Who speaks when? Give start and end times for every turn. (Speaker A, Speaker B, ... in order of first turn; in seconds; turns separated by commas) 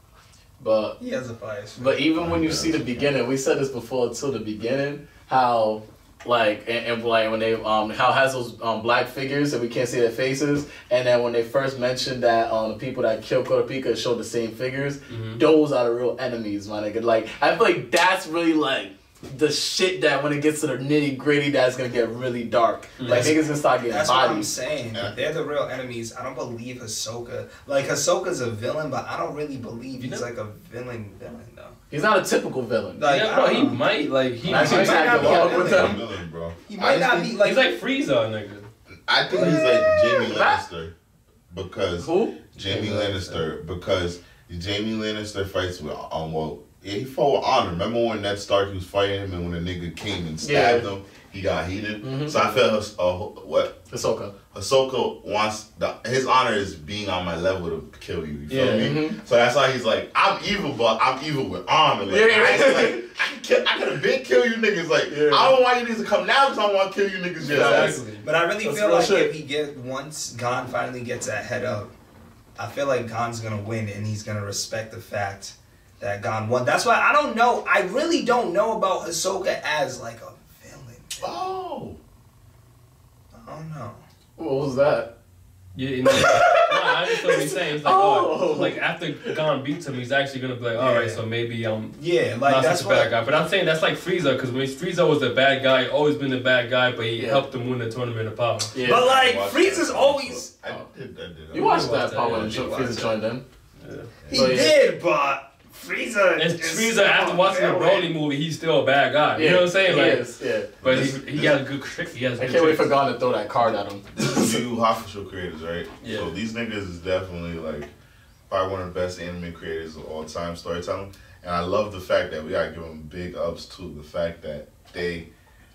Speaker A: 0.6-1.0, Speaker B: 1.0-2.0, Speaker A: 1.8-24.5, Speaker C: 2.2-3.1, Speaker D: 15.1-15.4, Speaker D: 23.0-23.4, Speaker B: 23.0-31.8, Speaker C: 24.9-25.3, Speaker D: 30.0-30.3, Speaker A: 31.9-33.0, Speaker B: 33.0-33.9, Speaker D: 33.0-35.3, Speaker B: 34.4-36.1, Speaker A: 34.5-36.0, Speaker C: 34.6-37.5, Speaker B: 36.7-37.7, Speaker D: 37.4-38.7, Speaker C: 39.1-40.9, Speaker A: 39.3-40.6, Speaker C: 41.5-53.8, Speaker A: 42.0-43.4, Speaker A: 50.4-50.9, Speaker A: 52.0-52.5, Speaker A: 53.9-54.3, Speaker C: 54.5-68.0, Speaker D: 58.5-58.9, Speaker A: 58.5-59.2, Speaker A: 62.1-63.0, Speaker A: 65.1-65.6, Speaker A: 67.4-68.0, Speaker D: 67.5-68.3, Speaker B: 67.5-71.9, Speaker A: 68.6-69.3, Speaker B: 72.6-81.4, Speaker C: 81.2-82.0, Speaker B: 83.3-84.0, Speaker A: 84.4-85.1, Speaker D: 85.8-98.7, Speaker A: 86.1-89.3, Speaker B: 90.7-91.2, Speaker B: 92.0-93.1, Speaker A: 97.2-97.4, Speaker A: 98.7-99.1, Speaker C: 98.8-102.9, Speaker B: 98.8-100.5, Speaker A: 101.5-103.4, Speaker D: 101.5-102.7, Speaker B: 102.3-103.2, Speaker D: 103.8-104.1, Speaker C: 104.2-104.7, Speaker B: 104.3-108.1, Speaker A: 104.3-104.8, Speaker D: 106.4-110.3, Speaker A: 109.4-110.7, Speaker C: 110.8-111.6, Speaker D: 110.8-113.0, Speaker A: 112.4-114.5, Speaker C: 114.2-117.9, Speaker D: 116.0-116.3, Speaker C: 118.5-125.3